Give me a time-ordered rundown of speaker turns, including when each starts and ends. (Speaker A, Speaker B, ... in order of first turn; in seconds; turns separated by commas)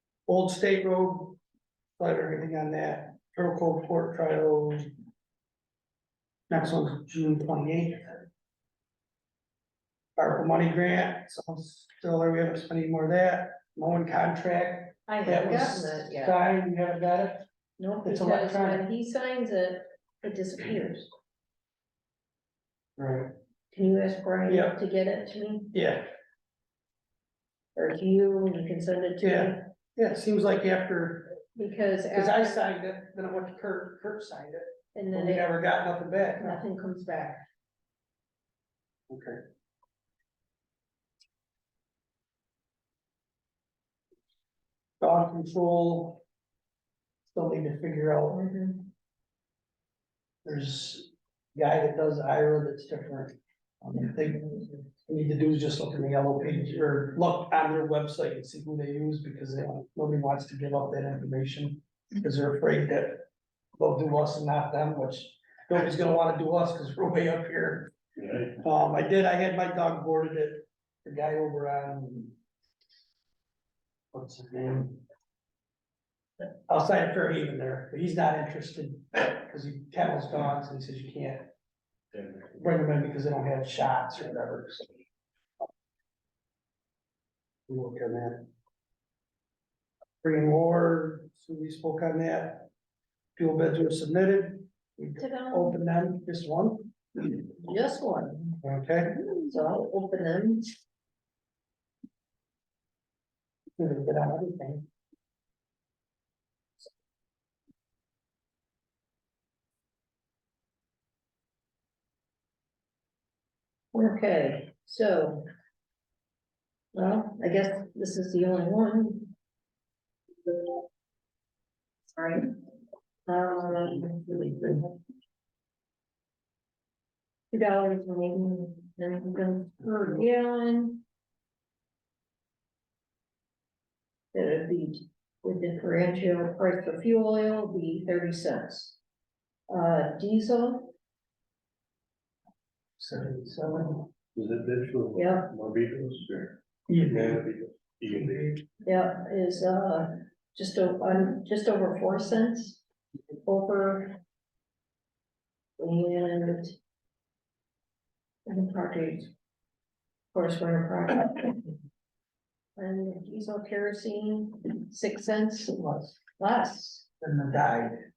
Speaker A: 0.3-1.4, Speaker A: 2.0-4.9, Speaker A: 6.5-8.2, Speaker A: 10.2-17.4, Speaker B: 15.1-16.4, Speaker B: 17.8-21.1, Speaker A: 18.0-18.8, Speaker A: 23.0-23.3, Speaker B: 23.7-25.7, Speaker A: 24.5-24.8, Speaker A: 25.7-26.1, Speaker B: 27.7-29.7, Speaker A: 29.2-31.4, Speaker B: 31.5-32.6, Speaker A: 32.1-36.6, Speaker B: 34.9-35.5, Speaker B: 36.4-37.4, Speaker A: 39.1-39.4, Speaker A: 45.0-46.2, Speaker A: 47.3-48.4, Speaker B: 48.3-48.9, Speaker A: 50.4-63.2, Speaker A: 63.8-72.3, Speaker A: 74.1-75.0, Speaker A: 76.7-81.5, Speaker A: 82.5-84.9, Speaker A: 87.7-88.5, Speaker A: 90.2-92.7, Speaker A: 93.3-96.9, Speaker B: 95.2-95.8, Speaker B: 97.3-98.6, Speaker A: 98.6-99.2, Speaker B: 99.3-100.7, Speaker A: 103.8-104.8, Speaker B: 113.9-115.5, Speaker B: 116.9-119.3, Speaker B: 123.3-124.7, Speaker B: 127.5-131.0, Speaker B: 134.3-139.0, Speaker B: 139.7-140.9, Speaker A: 143.0-144.1, Speaker C: 144.3-148.6, Speaker B: 145.1-145.5, Speaker A: 146.9-147.4, Speaker A: 148.1-148.6, Speaker B: 148.8-152.8, Speaker B: 153.4-154.2, Speaker B: 155.8-156.7, Speaker B: 158.4-159.3, Speaker B: 160.3-161.7, Speaker B: 162.8-165.8, Speaker A: 165.7-166.2, Speaker B: 166.4-167.1, Speaker A: 167.2-168.0